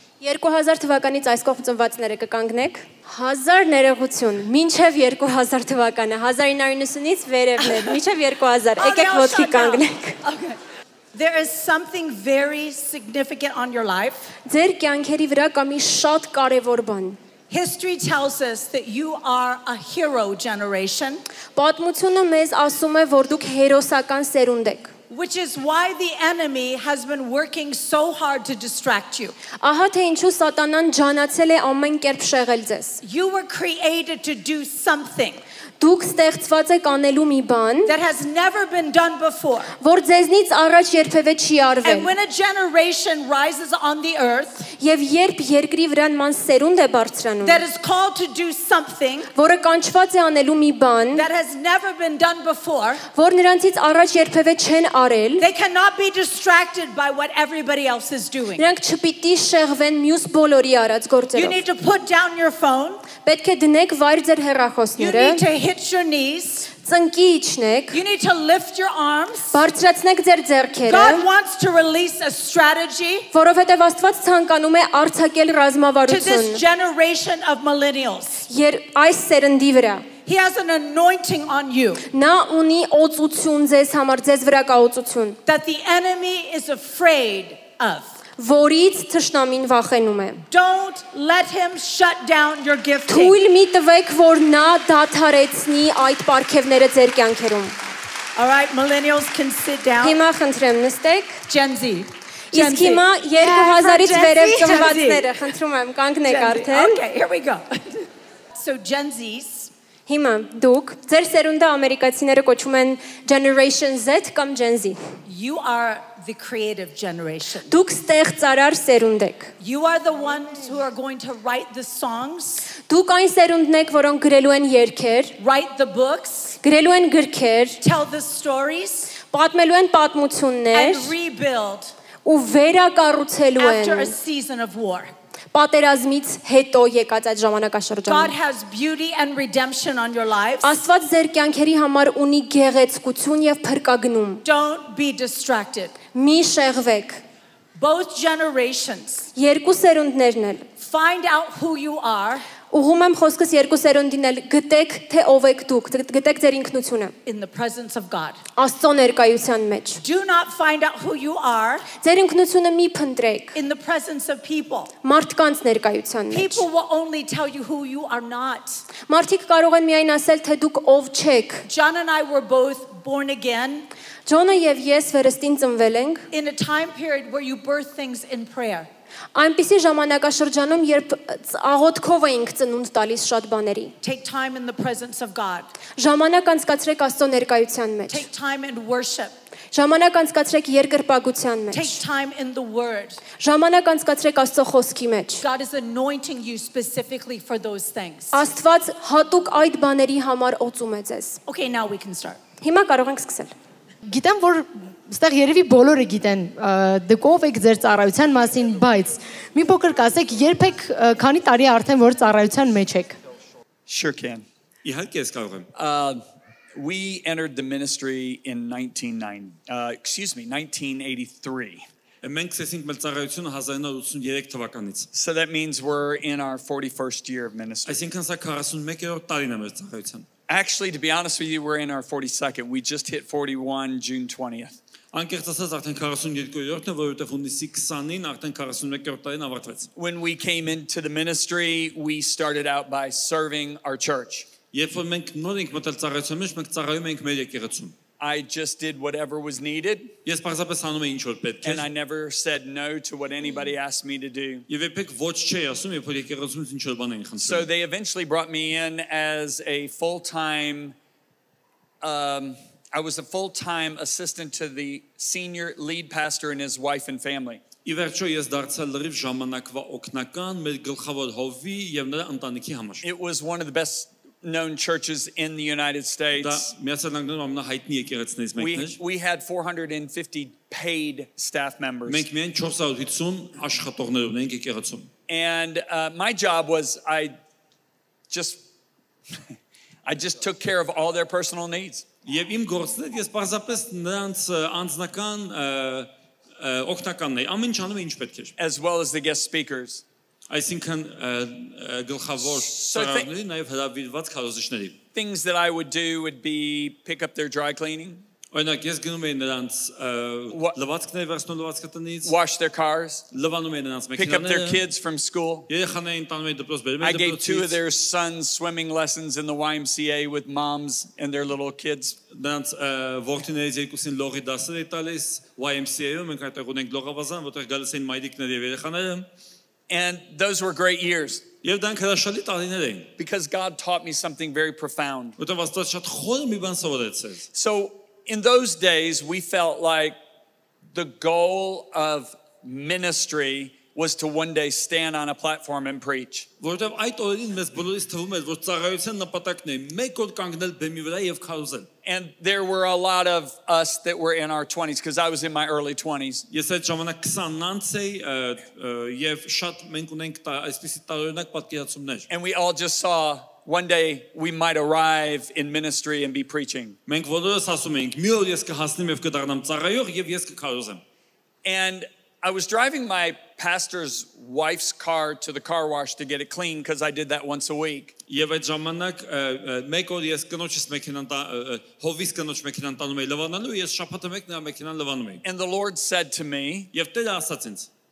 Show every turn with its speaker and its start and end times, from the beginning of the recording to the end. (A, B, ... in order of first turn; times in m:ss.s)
0:00.2-0:10.2 A
0:07.6-0:08.0 B
0:08.8-0:10.6 B
0:11.1-0:14.3 B
0:14.5-0:17.2 A
0:17.5-0:21.2 B
0:21.6-0:24.9 A
0:25.1-0:29.4 B
0:29.6-0:33.0 A
0:33.0-0:35.4 B
0:35.8-0:37.9 A
0:37.9-0:39.7 B
0:39.8-0:42.1 A
0:41.8-0:44.7 B
0:44.8-0:47.6 A
0:47.4-0:49.3 B
0:49.3-0:51.2 A
0:51.1-0:53.0 B
0:53.1-0:55.5 A
0:55.4-0:58.6 B
0:58.6-1:01.6 A
1:01.3-1:03.1 B
1:03.2-1:05.4 A
1:05.0-1:06.7 B
1:06.8-1:08.0 A
1:07.9-1:09.6 B
1:09.5-1:11.2 A
1:10.9-1:13.3 B
1:13.3-1:16.6 A
1:16.1-1:18.5 B
1:18.5-1:20.1 A
1:20.3-1:22.0 B
1:22.1-1:25.4 A
1:25.5-1:28.1 B
1:28.4-1:30.4 A
1:30.5-1:33.4 B
1:33.1-1:37.8 A
1:38.4-1:40.2 B
1:40.0-1:41.4 A
1:41.5-1:45.6 B
1:42.5-1:47.0 A
1:46.2-1:49.7 B
1:50.1-1:55.0 A
1:55.3-1:57.8 B
1:57.7-1:59.5 A
1:59.6-2:02.7 B
2:02.9-2:05.3 A
2:05.4-2:06.6 B
2:06.6-2:07.8 A
2:07.8-2:09.1 B
2:09.2-2:11.1 A
2:10.7-2:11.9 B
2:12.2-2:14.2 A
2:13.6-2:15.1 B
2:15.5-2:18.3 A
2:18.1-2:20.8 B
2:20.6-2:24.4 A
2:24.4-2:25.9 B
2:26.1-2:27.2 A
2:27.8-2:29.3 B
2:29.3-2:30.7 A
2:30.8-2:32.4 B
2:32.7-2:37.1 A
2:37.2-2:38.4 B
2:38.6-2:40.0 A
2:40.0-2:41.9 B
2:42.0-2:43.6 A
2:43.6-2:44.9 B
2:45.0-2:46.6 A
2:46.3-2:48.8 B
2:49.1-2:51.7 A
2:51.7-2:53.9 B
2:54.2-2:56.2 A
2:56.3-2:58.9 B
2:59.3-3:03.9 A
3:04.0-3:05.7 B
3:06.0-3:08.3 A
3:08.1-3:09.3 B
3:09.7-3:12.0 A
3:11.7-3:13.2 B
3:13.4-3:15.4 A
3:15.4-3:18.4 B
3:18.3-3:21.4 A
3:21.5-3:22.4 B
3:22.6-3:23.5 A
3:24.1-3:33.2 C
3:33.9-3:34.5 D
3:34.8-3:35.7 E
3:35.7-3:36.2 D
3:36.8-3:41.8 D
3:42.2-3:45.1 E
3:45.1-3:48.1 D
3:47.9-3:50.2 E
3:50.5-3:54.8 D
3:55.1-3:59.9 E
4:00.0-4:04.5 D
4:04.7-4:07.9 E
4:08.2-4:10.2 D
4:10.2-4:11.8 E
4:11.6-4:14.7 D
4:14.7-4:17.7 E
4:17.4-4:21.0 D
4:22.0-4:27.6 D
4:27.8-4:33.0 E
4:33.0-4:36.7 D
4:36.4-4:39.0 E
4:38.6-4:42.2 D
4:42.0-4:45.1 E
4:45.3-4:47.4 D
4:48.3-4:48.6 D
4:49.3-4:49.5 D
4:50.0-4:52.0 D
4:52.2-4:58.5 E
4:58.6-5:00.0 D
5:00.5-5:05.0 E
5:02.4-5:03.3 D
5:05.1-5:08.2 D
5:08.5-5:12.3 E
5:10.5-5:10.8 D
5:12.2-5:13.2 D
5:13.3-5:14.8 E
5:14.2-5:15.7 D
5:15.7-5:17.8 E
5:17.0-5:22.2 D
5:22.3-5:29.2 E
5:29.9-5:31.4 D
5:31.6-5:33.1 E
5:33.2-5:35.4 D
5:35.4-5:37.5 E
5:37.5-5:40.2 D
5:40.9-5:46.5 D
5:46.6-5:51.9 E
5:52.0-5:56.4 D
5:56.5-6:02.3 E
6:02.3-6:07.0 D
6:07.1-6:11.0 E
6:11.6-6:18.2 D
6:18.3-6:25.4 E
6:25.4-6:26.9 D
6:26.9-6:27.9 E